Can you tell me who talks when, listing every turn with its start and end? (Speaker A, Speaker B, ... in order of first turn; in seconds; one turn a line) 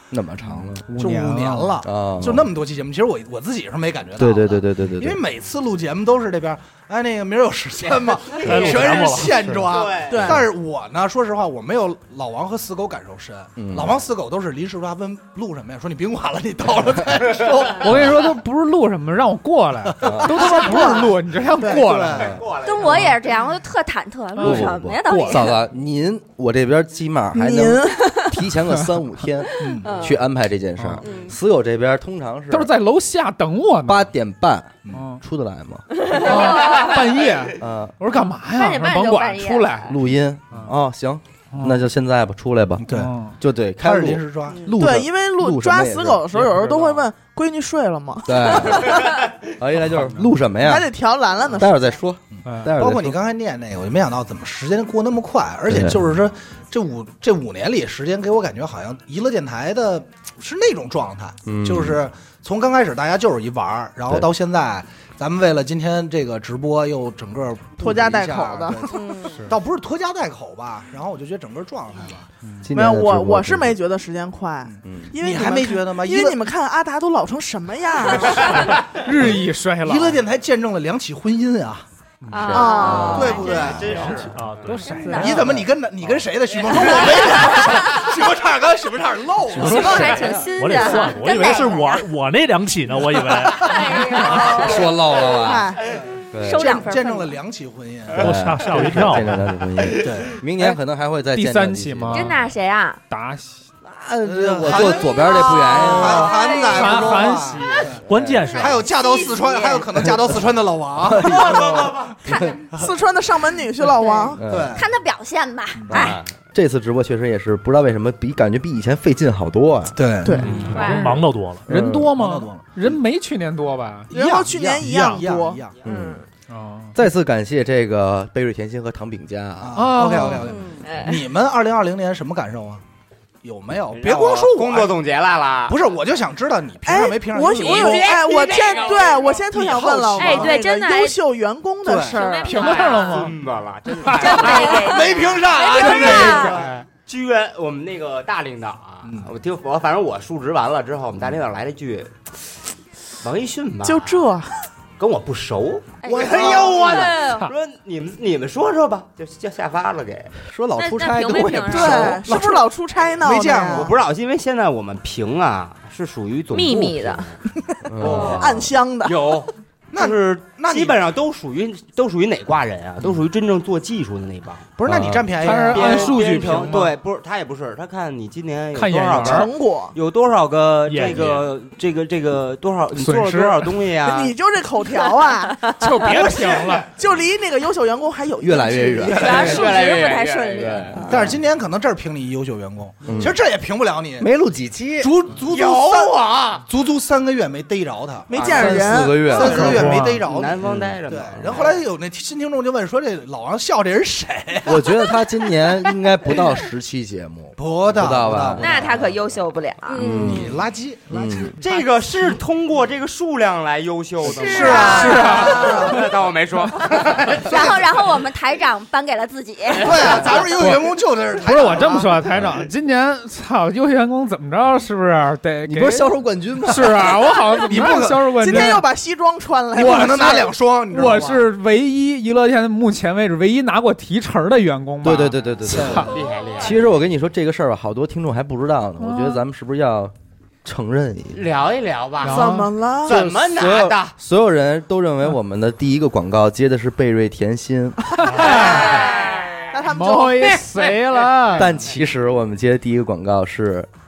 Speaker A: 0.1-0.8
Speaker B: 0.9-1.8
Speaker C: 0.9-18.1
Speaker A: 1.8-2.5
Speaker A: 4.2-5.2
Speaker D: 8.3-9.0
Speaker E: 8.3-9.8
Speaker D: 9.6-10.3
Speaker F: 10.1-10.4
Speaker A: 13.6-14.0
Speaker B: 17.8-23.1
Speaker C: 19.9-20.8
Speaker A: 20.0-20.5
Speaker F: 20.5-21.1
Speaker C: 21.6-22.4
Speaker A: 22.2-22.4
Speaker D: 22.2-23.0
Speaker G: 22.5-25.6
Speaker B: 24.3-25.5
Speaker A: 24.4-32.7
Speaker F: 27.3-28.3
Speaker C: 29.6-30.0
Speaker G: 29.6-30.2
Speaker B: 30.8-31.1
Speaker G: 31.0-31.4
Speaker B: 32.5-34.1
Speaker A: 33.9-36.1
Speaker B: 34.9-35.2
Speaker H: 36.0-37.0
Speaker B: 36.1-39.9
Speaker G: 36.1-37.0
Speaker A: 37.6-37.9
Speaker G: 38.6-39.9
Speaker H: 38.6-39.5
Speaker A: 39.9-42.9
Speaker B: 41.5-41.9
Speaker C: 42.8-43.1
Speaker B: 42.9-43.4
Speaker A: 43.4-46.2
Speaker C: 43.8-44.6
Speaker F: 44.8-49.2
Speaker B: 46.3-47.1
Speaker A: 48.2-50.9
Speaker B: 49.9-50.2
Speaker F: 50.6-52.0
Speaker A: 51.6-53.2
Speaker C: 52.4-72.3
Speaker B: 52.4-52.7
Speaker A: 55.7-56.0
Speaker A: 61.4-62.0
Speaker F: 67.8-69.0
Speaker G: 68.9-69.3
Speaker B: 69.3-69.6
Speaker A: 72.6-73.8
Speaker F: 72.7-78.6
Speaker A: 74.8-75.1
Speaker C: 75.1-76.4
Speaker B: 78.2-80.2
Speaker C: 79.8-81.8
Speaker B: 82.2-82.5
Speaker H: 82.3-83.8
Speaker G: 82.4-83.7
Speaker F: 82.5-83.5
Speaker C: 83.0-84.3
Speaker D: 83.6-84.3
Speaker B: 84.0-85.7
Speaker E: 84.2-85.0
Speaker G: 84.9-85.4
Speaker C: 85.1-90.4
Speaker G: 86.8-87.8
Speaker E: 89.5-94.5
Speaker H: 89.6-91.5
Speaker G: 89.8-92.1
Speaker H: 93.6-94.8
Speaker A: 94.3-95.7
Speaker F: 95.3-95.8
Speaker A: 96.3-96.7
Speaker H: 96.4-97.3
Speaker C: 96.6-98.4
Speaker F: 96.6-96.9
Speaker E: 98.1-99.5
Speaker A: 98.1-102.5
Speaker C: 99.9-100.4
Speaker B: 101.3-102.5
Speaker H: 102.1-103.0
Speaker B: 103.1-103.7
Speaker A: 103.8-106.3
Speaker C: 104.2-108.0
Speaker G: 105.0-107.0
Speaker B: 106.0-107.9
Speaker E: 108.0-108.9
Speaker A: 108.1-108.5
Speaker G: 108.5-109.8
Speaker C: 108.5-112.9
Speaker H: 109.0-109.8
Speaker A: 110.0-110.4
Speaker A: 111.0-112.5
Speaker F: 112.7-114.4
Speaker G: 114.0-116.2
Speaker A: 114.4-114.8
Speaker C: 114.5-114.9
Speaker C: 115.8-116.1
Speaker A: 115.9-120.0
Speaker D: 115.9-116.3
Speaker C: 120.0-120.7
Speaker B: 120.4-124.1
Speaker D: 120.5-120.8
Speaker E: 120.5-121.7
Speaker H: 120.7-121.1
Speaker A: 121.7-122.1
Speaker C: 122.1-122.7
Speaker C: 124.1-125.8
Speaker F: 124.1-125.6
Speaker A: 125.8-126.2
Speaker H: 125.9-126.2
Speaker B: 126.5-127.0
Speaker A: 126.9-129.8
Speaker C: 129.6-132.8
Speaker B: 129.7-130.6
Speaker G: 130.4-130.8
Speaker H: 130.8-131.2
Speaker C: 133.4-135.0
Speaker D: 133.9-135.8
Speaker C: 135.7-138.2
Speaker F: 136.8-142.5
Speaker D: 137.6-139.4
Speaker H: 137.9-138.8
Speaker C: 139.3-140.6
Speaker H: 140.2-141.2
Speaker C: 141.8-142.2
Speaker H: 142.1-143.2
Speaker B: 142.4-143.3
Speaker D: 142.6-144.9
Speaker B: 144.0-144.4
Speaker H: 144.2-146.2
Speaker C: 144.3-146.7
Speaker G: 144.4-146.5
Speaker B: 145.8-146.8
Speaker D: 147.0-152.4
Speaker C: 149.0-149.3
Speaker D: 153.2-154.3
Speaker F: 153.8-154.5
Speaker D: 155.0-160.3
Speaker G: 156.0-157.4
Speaker C: 156.1-157.1
Speaker H: 156.8-157.4
Speaker A: 160.5-162.2
Speaker H: 160.8-162.2
Speaker F: 161.7-163.9
Speaker C: 162.2-162.7
Speaker C: 163.2-163.9
Speaker D: 163.3-167.4
Speaker H: 166.5-167.3
Speaker A: 167.9-168.7
Speaker D: 168.0-174.7
Speaker C: 168.1-168.3
Speaker F: 168.1-169.2
Speaker C: 169.9-171.0
Speaker C: 174.8-176.8
Speaker A: 174.8-175.3
Speaker B: 175.3-176.9
Speaker D: 175.5-184.3
Speaker B: 178.7-179.5
Speaker F: 179.2-179.9
Speaker E: 180.8-181.5
Speaker B: 182.9-183.9
Speaker F: 184.0-189.3
Speaker H: 185.6-186.1
Speaker B: 185.8-186.9
Speaker A: 188.4-189.7
Speaker H: 189.1-191.1
Speaker C: 189.1-189.8
Speaker D: 189.2-191.0
Speaker A: 190.6-191.4
Speaker C: 191.0-194.3
Speaker A: 193.0-193.4
Speaker A: 194.2-195.1
Speaker C: 195.0-204.9
Speaker D: 195.4-196.6
Speaker F: 198.3-199.7
Speaker A: 198.3-199.9
Speaker D: 199.3-201.8
Speaker B: 199.6-200.2
Speaker E: 199.6-200.2
Speaker A: 200.6-200.9
Speaker A: 204.7-209.0
Speaker C: 207.6-208.8
Speaker H: 208.6-210.0
Speaker G: 209.9-210.5
Speaker A: 209.9-210.6
Speaker C: 210.2-211.4
Speaker A: 211.1-211.6
Speaker D: 211.6-217.8
Speaker C: 214.2-216.1
Speaker H: 214.4-215.2
Speaker B: 214.5-216.0
Speaker G: 214.6-215.9
Speaker C: 217.4-218.0
Speaker G: 217.4-220.1
Speaker D: 219.7-220.4
Speaker C: 219.8-222.2
Speaker B: 220.5-228.8
Speaker A: 225.7-227.3
Speaker C: 227.6-228.8
Speaker F: 228.4-230.5
Speaker C: 229.8-231.5
Speaker B: 229.8-236.1
Speaker A: 235.0-240.1
Speaker D: 236.1-236.8
Speaker B: 239.0-239.4
Speaker A: 240.6-241.4
Speaker D: 241.3-242.4
Speaker B: 242.2-242.7
Speaker F: 242.2-243.2
Speaker D: 243.0-244.2
Speaker A: 243.1-248.5
Speaker B: 248.2-249.1
Speaker H: 249.0-249.3
Speaker F: 249.7-250.6
Speaker B: 249.8-251.7
Speaker D: 250.6-250.9
Speaker A: 251.5-253.9